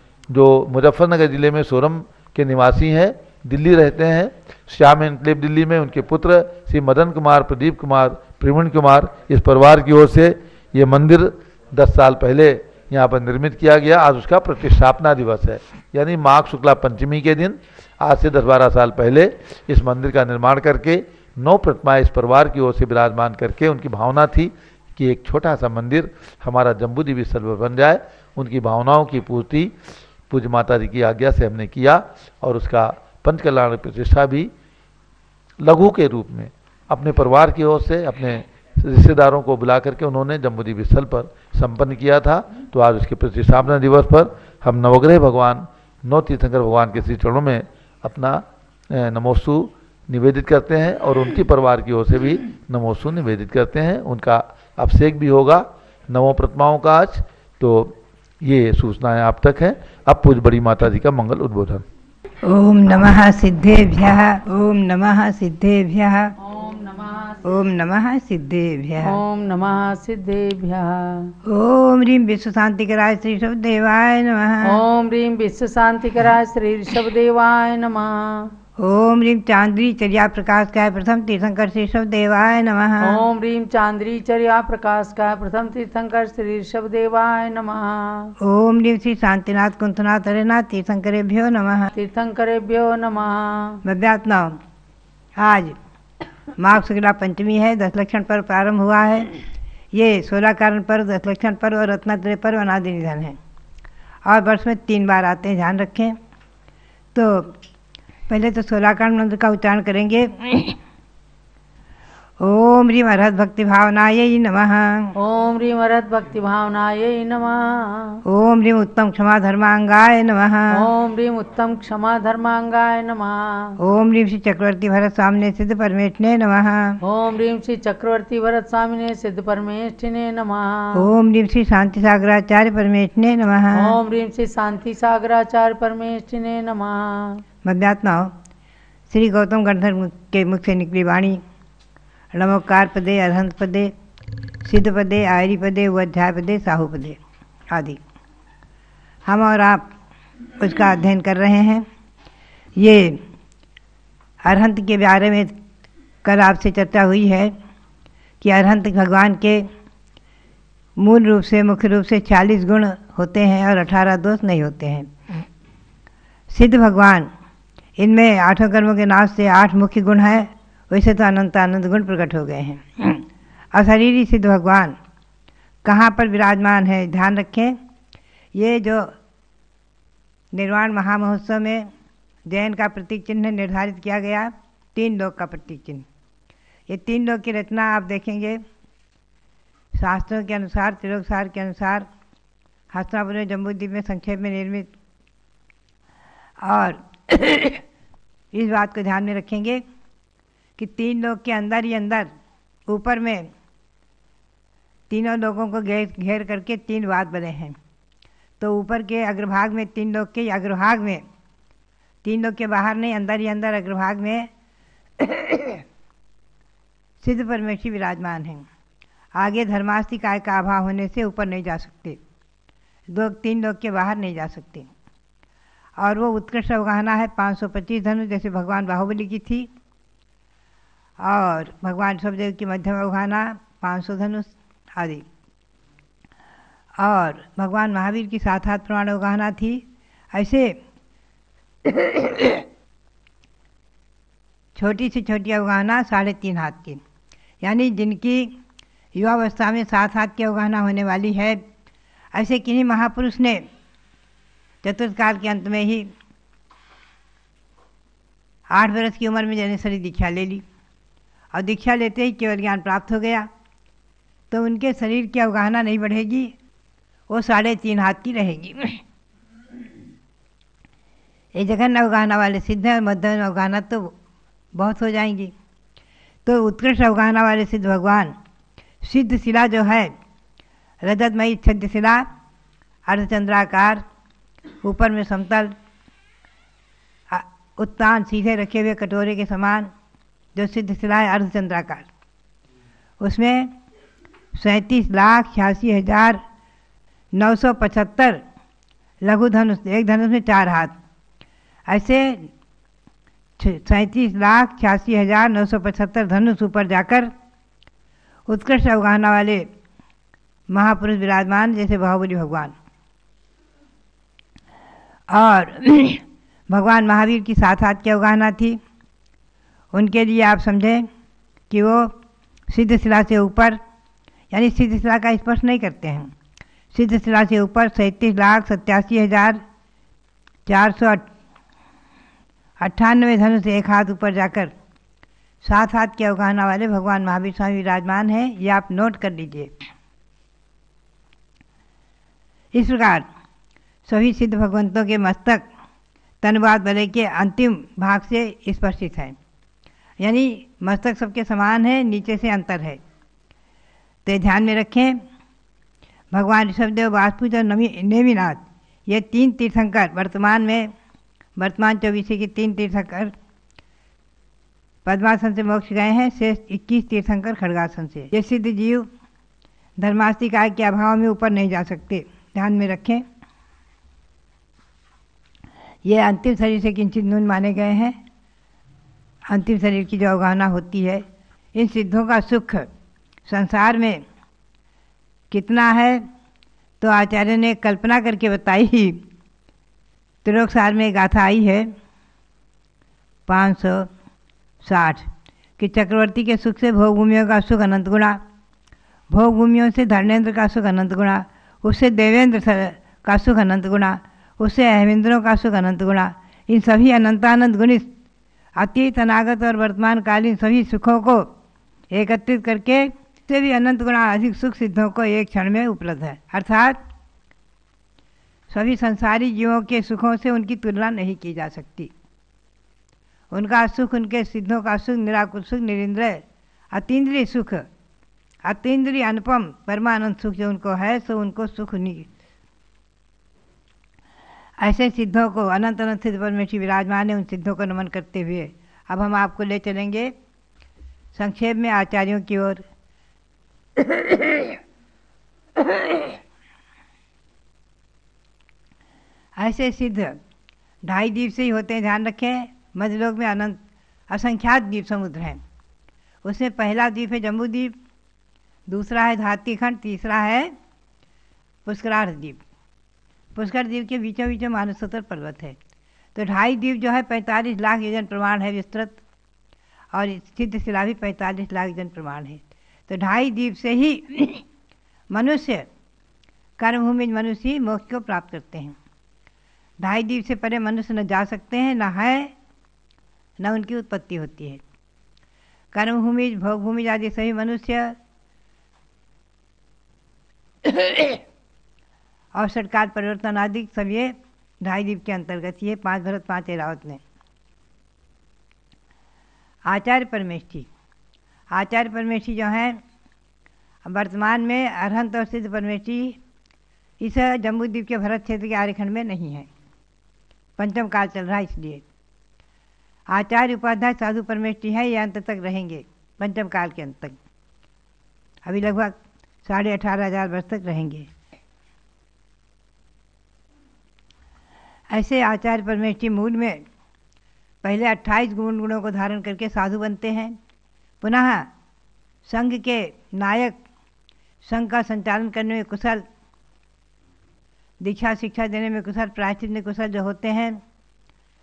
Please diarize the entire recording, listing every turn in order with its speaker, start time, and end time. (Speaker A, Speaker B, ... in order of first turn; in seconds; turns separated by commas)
Speaker A: 0.3-29.7, Speaker A: 30.3-34.5, Speaker A: 35.6-61.8, Speaker B: 62.4-66.3, Speaker C: 66.4-67.4, Speaker B: 67.5-69.2, Speaker C: 69.0-71.3, Speaker B: 71.5-74.8, Speaker C: 74.6-78.5, Speaker B: 78.8-83.2, Speaker C: 83.0-88.3, Speaker B: 88.4-91.9, Speaker C: 91.9-93.8, Speaker B: 93.8-94.6, Speaker B: 95.4-95.8, Speaker B: 96.6-99.3, Speaker B: 99.9-103.4, Speaker B: 104.3-106.2, Speaker B: 107.1-107.5, Speaker B: 108.3-110.8, Speaker B: 112.4-115.1, Speaker C: 115.2-118.2, Speaker B: 118.3-120.9, Speaker C: 120.7-123.8, Speaker B: 123.8-127.0, Speaker C: 127.0-131.1, Speaker B: 130.9-134.0, Speaker C: 133.7-137.4, Speaker B: 137.7-138.3, Speaker B: 139.1-141.4, Speaker B: 142.3-143.9, Speaker B: 144.7-147.2, Speaker B: 147.7-148.0, Speaker B: 149.3-149.9, Speaker B: 150.6-151.9, Speaker B: 152.8-153.2, Speaker B: 154.4-155.6, Speaker B: 156.2-157.5, Speaker B: 158.4-159.7, Speaker B: 161.0-165.1, Speaker B: 166.5-167.3, Speaker B: 168.0-173.2, Speaker B: 173.7-175.0, Speaker B: 175.8-177.8, Speaker B: 178.6-179.1, Speaker B: 180.5-181.9, Speaker B: 182.5-186.1, Speaker B: 186.9-188.6, Speaker B: 190.0-192.1, Speaker B: 192.9-194.9, Speaker B: 196.6-197.8, Speaker B: 198.5-199.8, Speaker B: 200.8-202.3, Speaker B: 202.9-203.5, Speaker B: 205.1-207.8, Speaker B: 208.6-211.2, Speaker B: 212.2-214.5, Speaker B: 215.2-215.8, Speaker B: 217.2-218.7, Speaker B: 219.3-222.2, Speaker B: 223.1-224.9, Speaker B: 226.0-229.7, Speaker B: 231.2-235.2, Speaker B: 237.0-240.8, Speaker B: 244.8-247.0, Speaker B: 247.6-248.5, Speaker B: 249.2-251.6, Speaker B: 252.3-253.6, Speaker B: 254.8-256.1, Speaker B: 258.7-260.6, Speaker B: 261.5-263.5, Speaker B: 264.5-266.5, Speaker B: 267.3-269.0, Speaker B: 271.6-274.1, Speaker B: 274.8-275.5, Speaker B: 276.5-278.3, Speaker B: 279.0-280.1, Speaker B: 281.0-282.3, Speaker B: 283.1-284.0, Speaker B: 284.8-285.7, Speaker B: 287.3-289.9, Speaker B: 290.6-292.1, Speaker B: 293.2-293.7, Speaker B: 294.6-296.4, Speaker B: 297.3-298.4, Speaker B: 299.2-300.9, Speaker B: 301.9-302.5, Speaker B: 303.6-307.3, Speaker B: 308.5-309.7, Speaker B: 310.7-312.7, Speaker B: 315.3-318.8, Speaker B: 319.9-321.1, Speaker B: 321.7-322.1, Speaker B: 322.7-323.8, Speaker B: 324.5-326.3, Speaker B: 326.9-329.6, Speaker B: 330.7-331.3, Speaker B: 332.8-334.7, Speaker B: 335.6-339.7, Speaker B: 342.7-343.2, Speaker B: 344.1-345.7, Speaker B: 346.4-349.4, Speaker B: 350.2-353.0, Speaker B: 354.3-355.2, Speaker B: 356.3-360.9, Speaker B: 361.6-363.3, Speaker B: 365.1-369.1, Speaker B: 370.0-373.2, Speaker B: 376.1-378.2, Speaker B: 379.5-382.9, Speaker B: 383.5-384.2, Speaker B: 385.5-386.2, Speaker B: 387.0-389.2, Speaker B: 390.4-391.9, Speaker B: 393.5-394.1, Speaker B: 394.8-398.4, Speaker B: 399.3-408.1, Speaker B: 408.8-411.5, Speaker B: 412.1-417.0, Speaker B: 418.7-422.1, Speaker B: 423.5-427.9, Speaker B: 428.6-432.3, Speaker B: 434.8-440.3, Speaker B: 441.4-442.8, Speaker B: 449.6-450.4, Speaker B: 451.1-453.8, Speaker B: 454.3-455.6, Speaker B: 456.4-457.9, Speaker B: 458.9-460.7, Speaker B: 461.9-462.6, Speaker B: 463.6-465.8, Speaker B: 466.4-469.2, Speaker B: 470.1-474.6, Speaker B: 475.3-475.9, Speaker B: 476.8-479.0, Speaker B: 480.0-482.5, Speaker B: 483.6-484.8, Speaker B: 485.9-488.1, Speaker B: 491.0-491.4, Speaker B: 492.6-497.2, Speaker B: 499.9-500.9, Speaker B: 501.7-503.0, Speaker B: 504.1-506.4, Speaker B: 507.2-509.7, Speaker B: 510.8-512.0, Speaker B: 513.3-517.4, Speaker B: 518.6-521.3, Speaker B: 525.1-526.8, Speaker B: 527.8-530.6, Speaker B: 531.2-531.7, Speaker B: 532.5-533.8, Speaker B: 534.6-536.2, Speaker B: 538.0-540.8